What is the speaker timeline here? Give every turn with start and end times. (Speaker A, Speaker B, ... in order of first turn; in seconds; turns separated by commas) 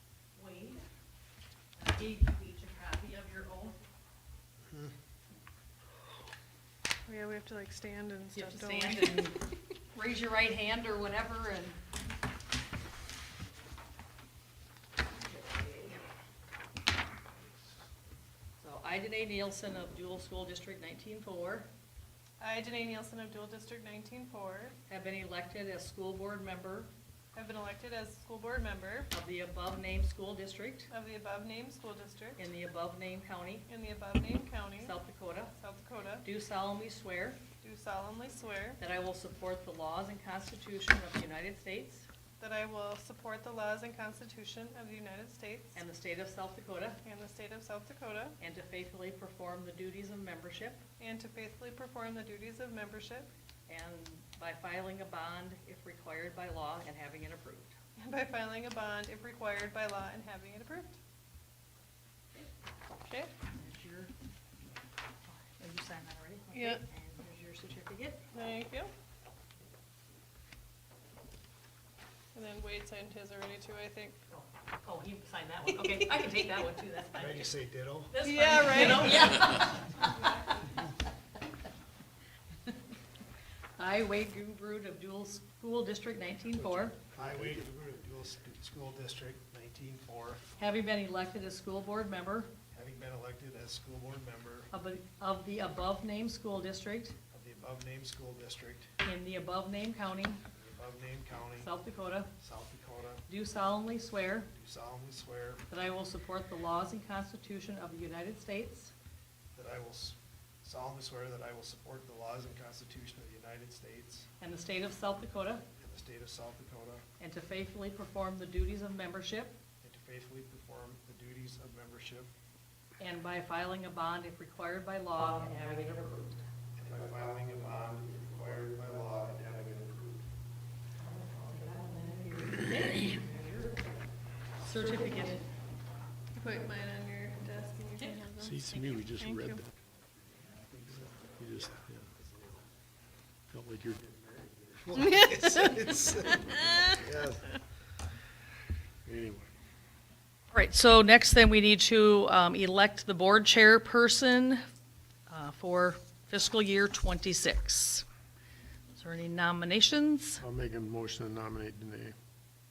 Speaker A: 0.3-0.8, Speaker A: 1.7-3.8, Speaker B: 4.6-4.9, Speaker C: 7.0-9.3, Speaker A: 8.3-9.4, Speaker A: 9.9-11.8, Speaker A: 15.2-16.0, Speaker B: 17.3-17.8, Speaker A: 18.6-21.7, Speaker C: 22.4-24.8, Speaker A: 24.9-26.9, Speaker C: 27.3-29.1, Speaker A: 29.1-30.9, Speaker C: 30.9-32.4, Speaker A: 32.4-33.6, Speaker C: 33.7-34.9, Speaker A: 34.8-35.5, Speaker C: 35.6-36.3, Speaker A: 36.2-37.4, Speaker C: 37.6-38.8, Speaker A: 38.8-42.0, Speaker C: 42.4-45.8, Speaker A: 45.7-47.0, Speaker C: 47.0-48.4, Speaker A: 48.4-50.8, Speaker C: 51.0-53.3, Speaker A: 53.7-57.7, Speaker C: 58.0-60.9, Speaker C: 63.0-63.3, Speaker A: 63.4-64.1, Speaker A: 65.3-68.2, Speaker C: 66.5-66.8, Speaker C: 68.3-68.9, Speaker C: 72.3-74.2, Speaker A: 74.3-77.5, Speaker B: 77.2-78.2, Speaker A: 78.1-80.9, Speaker C: 78.2-80.4, Speaker A: 83.8-87.0, Speaker D: 86.7-87.6, Speaker B: 87.1-90.5, Speaker A: 90.6-92.5, Speaker B: 92.7-94.7, Speaker A: 94.7-97.1, Speaker B: 97.3-98.9, Speaker A: 99.0-100.4, Speaker B: 100.5-101.7, Speaker A: 101.6-102.3, Speaker B: 102.4-103.2, Speaker A: 103.3-104.5, Speaker B: 104.5-105.7, Speaker A: 105.7-108.9, Speaker B: 109.5-114.3, Speaker A: 114.4-115.6, Speaker B: 115.7-117.0, Speaker A: 117.2-119.6, Speaker B: 119.8-122.3, Speaker A: 123.0-126.4, Speaker B: 126.8-130.3, Speaker A: 131.0-133.8, Speaker A: 134.6-135.5, Speaker C: 136.3-139.6, Speaker D: 138.4-139.7, Speaker B: 140.2-142.7, Speaker D: 141.4-142.1, Speaker D: 143.5-144.0, Speaker B: 144.0-147.6, Speaker C: 145.0-145.8, Speaker D: 149.0-149.5, Speaker A: 150.5-154.6, Speaker A: 155.3-158.0, Speaker A: 158.9-160.4, Speaker D: 160.4-162.2